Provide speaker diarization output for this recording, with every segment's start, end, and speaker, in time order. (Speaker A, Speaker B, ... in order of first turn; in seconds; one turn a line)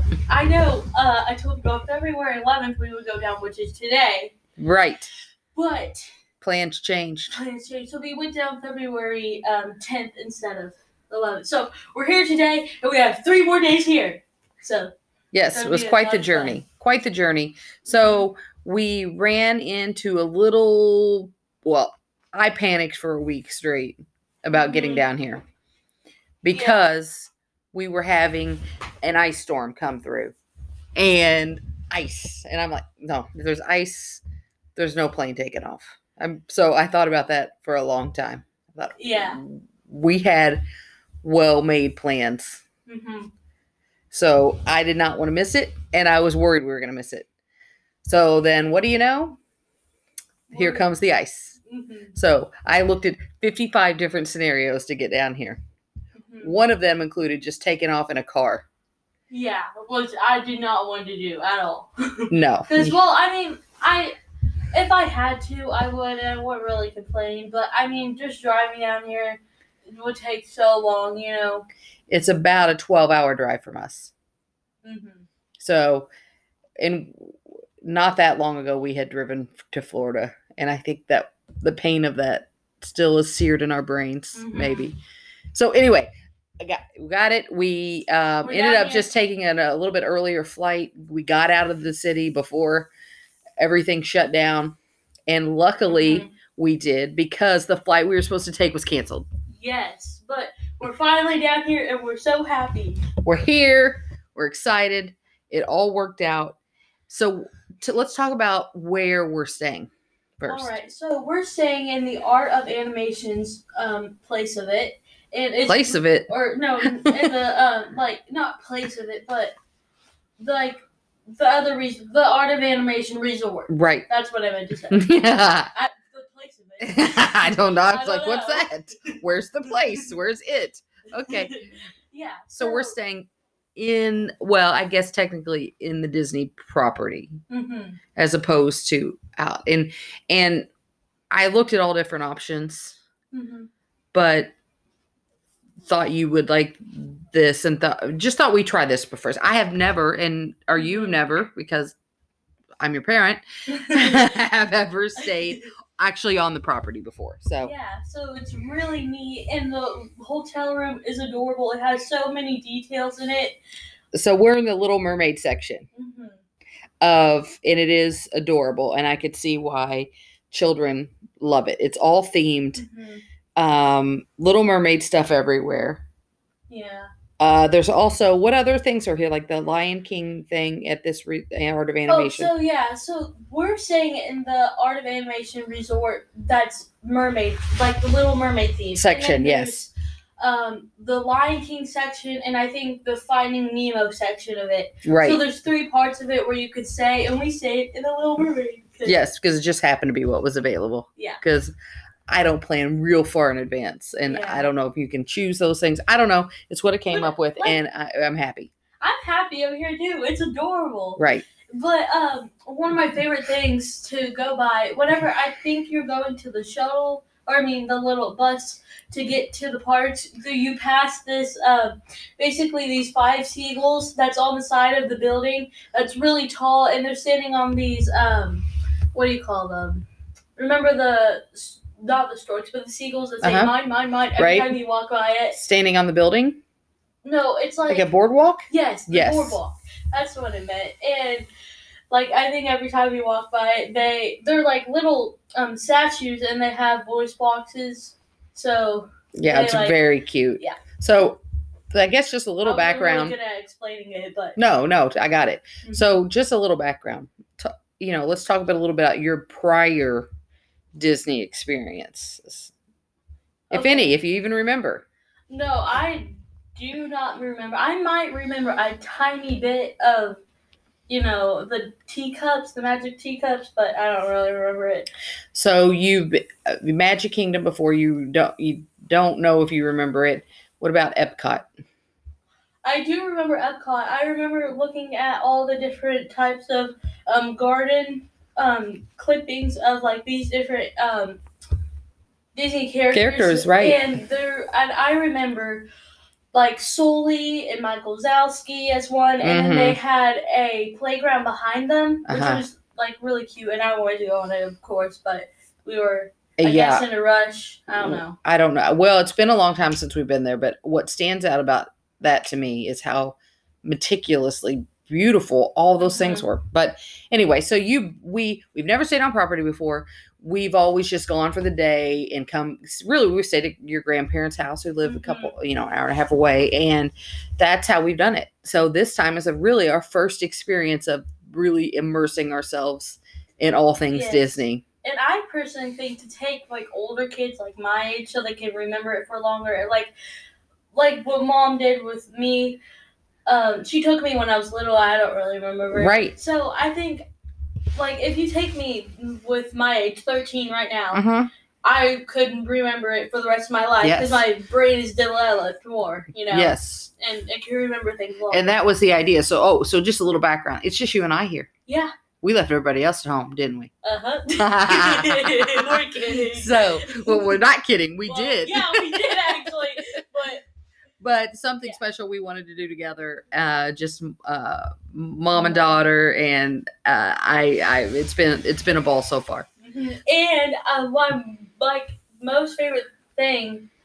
Speaker A: 0.3-4.3
Speaker B: 4.6-5.1
Speaker A: 5.5-6.1
Speaker B: 6.4-7.4
Speaker A: 7.3-14.9
Speaker B: 15.3-25.4
Speaker A: 15.5-16.6
Speaker A: 17.9-18.3
Speaker A: 24.5-25.1
Speaker B: 26.4-30.3
Speaker A: 26.5-26.8
Speaker B: 31.0-34.2
Speaker B: 34.8-40.6
Speaker A: 39.0-39.4
Speaker B: 41.2-42.6
Speaker A: 42.9-43.3
Speaker B: 44.1-47.3
Speaker B: 48.0-49.4
Speaker A: 50.5-50.9
Speaker B: 50.5-51.6
Speaker A: 51.7-52.2
Speaker B: 52.1-55.6
Speaker A: 56.2-56.6
Speaker B: 56.4-58.7
Speaker A: 59.3-64.2
Speaker B: 62.3-63.0
Speaker A: 64.7-71.7
Speaker B: 72.1-74.1
Speaker A: 74.8-75.3
Speaker B: 75.6-76.1
Speaker B: 76.8-85.0
Speaker A: 84.3-84.9
Speaker B: 85.5-92.9
Speaker A: 88.4-89.1
Speaker B: 93.6-94.8
Speaker B: 95.3-99.3
Speaker A: 95.9-96.3
Speaker A: 99.5-103.0
Speaker B: 103.2-106.6
Speaker B: 107.1-110.7
Speaker A: 110.5-119.5
Speaker B: 115.7-116.3
Speaker B: 116.8-117.3
Speaker A: 120.4-120.8
Speaker A: 121.3-125.1
Speaker B: 123.7-124.1
Speaker B: 124.9-125.7
Speaker A: 125.7-130.1
Speaker B: 126.8-131.5
Speaker A: 131.2-132.9
Speaker B: 132.6-137.4
Speaker A: 137.5-138.0
Speaker B: 138.2-140.7
Speaker B: 141.3-143.0
Speaker A: 143.3-143.7
Speaker B: 144.1-144.5
Speaker B: 145.8-151.9
Speaker A: 150.7-151.2
Speaker B: 152.8-157.7
Speaker A: 153.7-154.3
Speaker A: 155.2-155.7
Speaker A: 157.6-163.6
Speaker B: 164.1-165.9
Speaker A: 165.9-166.4
Speaker B: 167.0-172.8
Speaker A: 172.8-173.2
Speaker B: 173.6-176.0
Speaker A: 176.7-177.1
Speaker B: 177.4-182.5
Speaker A: 182.1-199.2
Speaker B: 188.9-189.9
Speaker B: 195.1-195.4
Speaker B: 199.0-201.7
Speaker B: 202.3-208.7
Speaker A: 204.2-204.7
Speaker A: 207.1-207.8
Speaker A: 209.0-230.1
Speaker B: 211.2-211.4
Speaker A: 230.6-235.6
Speaker B: 233.4-233.7
Speaker B: 234.4-234.8
Speaker B: 235.5-236.6
Speaker A: 237.2-238.1
Speaker B: 237.9-239.6
Speaker A: 238.7-241.5
Speaker A: 242.1-250.0
Speaker B: 249.3-251.4
Speaker B: 251.9-253.4
Speaker A: 252.6-254.6
Speaker B: 254.6-260.3
Speaker B: 260.9-262.7
Speaker B: 263.7-265.0
Speaker A: 263.7-264.1
Speaker A: 265.5-270.4
Speaker A: 271.1-275.1
Speaker B: 275.5-281.7
Speaker A: 282.8-291.4
Speaker A: 292.6-295.9
Speaker B: 293.1-294.0
Speaker A: 296.5-308.4
Speaker B: 299.4-300.0
Speaker B: 302.3-302.6
Speaker B: 306.6-307.1
Speaker B: 308.0-334.8
Speaker A: 316.0-316.5
Speaker A: 325.0-325.6
Speaker A: 334.1-340.1
Speaker A: 340.9-342.8
Speaker A: 343.5-347.3
Speaker B: 345.9-346.4
Speaker A: 348.0-351.2
Speaker B: 351.1-351.5
Speaker A: 351.8-358.8
Speaker B: 354.0-354.4
Speaker B: 356.5-357.1
Speaker B: 358.5-361.7
Speaker A: 361.9-362.1
Speaker B: 362.4-363.9
Speaker A: 364.0-367.6
Speaker B: 364.6-370.2
Speaker A: 368.2-370.6
Speaker B: 371.2-379.7
Speaker A: 375.5-376.1
Speaker A: 379.8-383.9